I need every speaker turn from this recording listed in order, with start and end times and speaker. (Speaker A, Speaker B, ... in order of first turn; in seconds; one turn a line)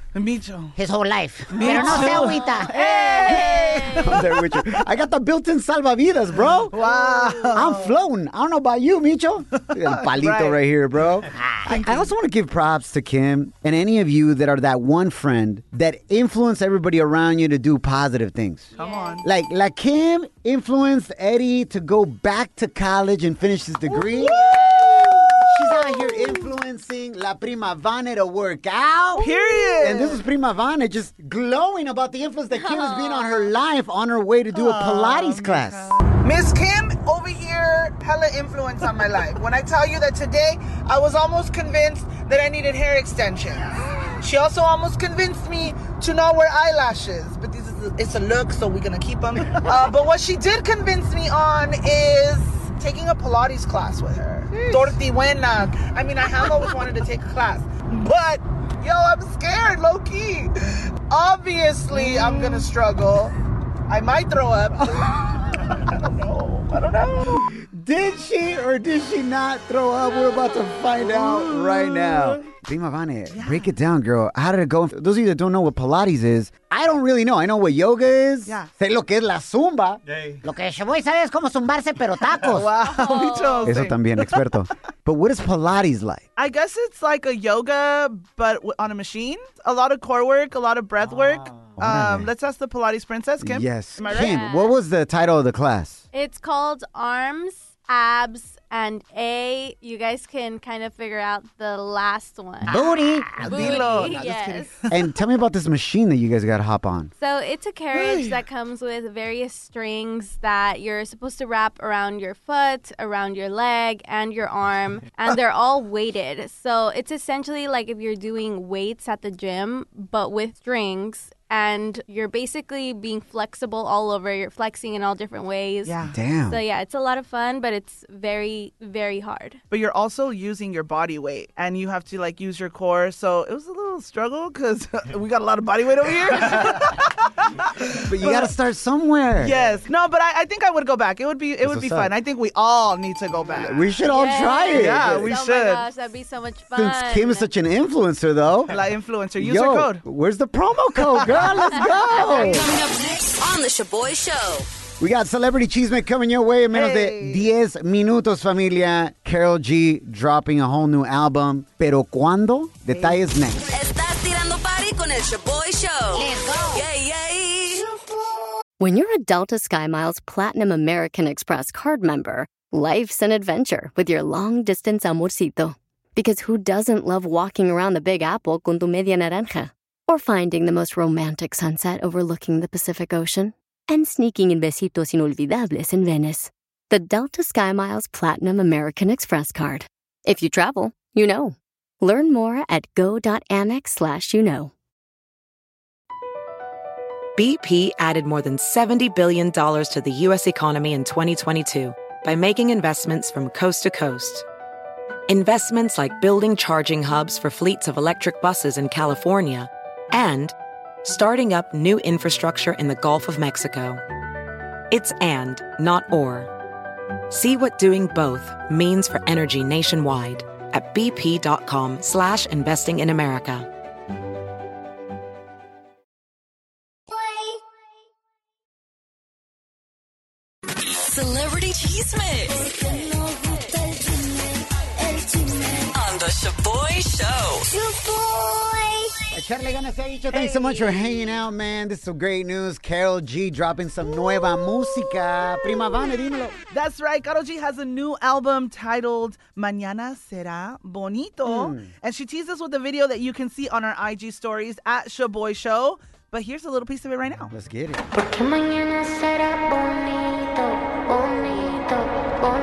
Speaker A: 0.1-0.8
Speaker B: 0.8-2.7
Speaker A: 1.5-4.8
Speaker C: 1.6-2.4
Speaker D: 2.0-4.3
Speaker C: 3.2-18.7
Speaker A: 6.4-8.0
Speaker A: 9.7-10.6
Speaker B: 11.3-12.0
Speaker D: 18.8-19.2
Speaker A: 18.8-19.2
Speaker C: 19.2-35.9
Speaker A: 29.2-30.2
Speaker D: 32.5-33.5
Speaker A: 34.5-63.3
Speaker A: 63.9-67.5
Speaker C: 67.3-80.0
Speaker A: 71.2-71.8
Speaker A: 73.3-73.7
Speaker B: 80.4-82.7
Speaker A: 82.5-84.4
Speaker D: 82.8-83.8
Speaker C: 83.6-86.2
Speaker A: 86.4-94.5
Speaker C: 91.8-92.3
Speaker C: 93.4-96.0
Speaker D: 94.0-94.8
Speaker D: 96.1-102.8
Speaker B: 102.6-103.7
Speaker C: 102.9-107.1
Speaker D: 103.3-104.8
Speaker A: 103.4-105.0
Speaker D: 107.2-126.0
Speaker A: 107.9-108.4
Speaker A: 125.8-126.2
Speaker C: 126.1-126.6
Speaker D: 126.5-129.6
Speaker A: 129.7-138.5
Speaker C: 138.1-139.6
Speaker A: 139.4-143.8
Speaker C: 141.6-142.1
Speaker C: 143.5-145.4
Speaker D: 144.1-147.5
Speaker A: 144.7-145.8
Speaker C: 146.7-148.8
Speaker A: 148.7-150.0
Speaker C: 149.4-152.7
Speaker A: 151.0-152.6
Speaker D: 152.2-152.5
Speaker E: 152.6-153.4
Speaker C: 155.0-163.7
Speaker A: 156.7-157.5
Speaker B: 166.1-166.9
Speaker F: 168.8-194.7
Speaker G: 197.4-204.5
Speaker G: 205.3-210.5
Speaker G: 211.0-214.0
Speaker G: 214.9-216.5
Speaker G: 217.3-223.7
Speaker E: 231.0-233.5
Speaker E: 235.9-237.7
Speaker C: 239.3-246.6
Speaker A: 240.4-240.9
Speaker A: 246.7-257.5
Speaker C: 251.4-251.9
Speaker C: 257.5-258.1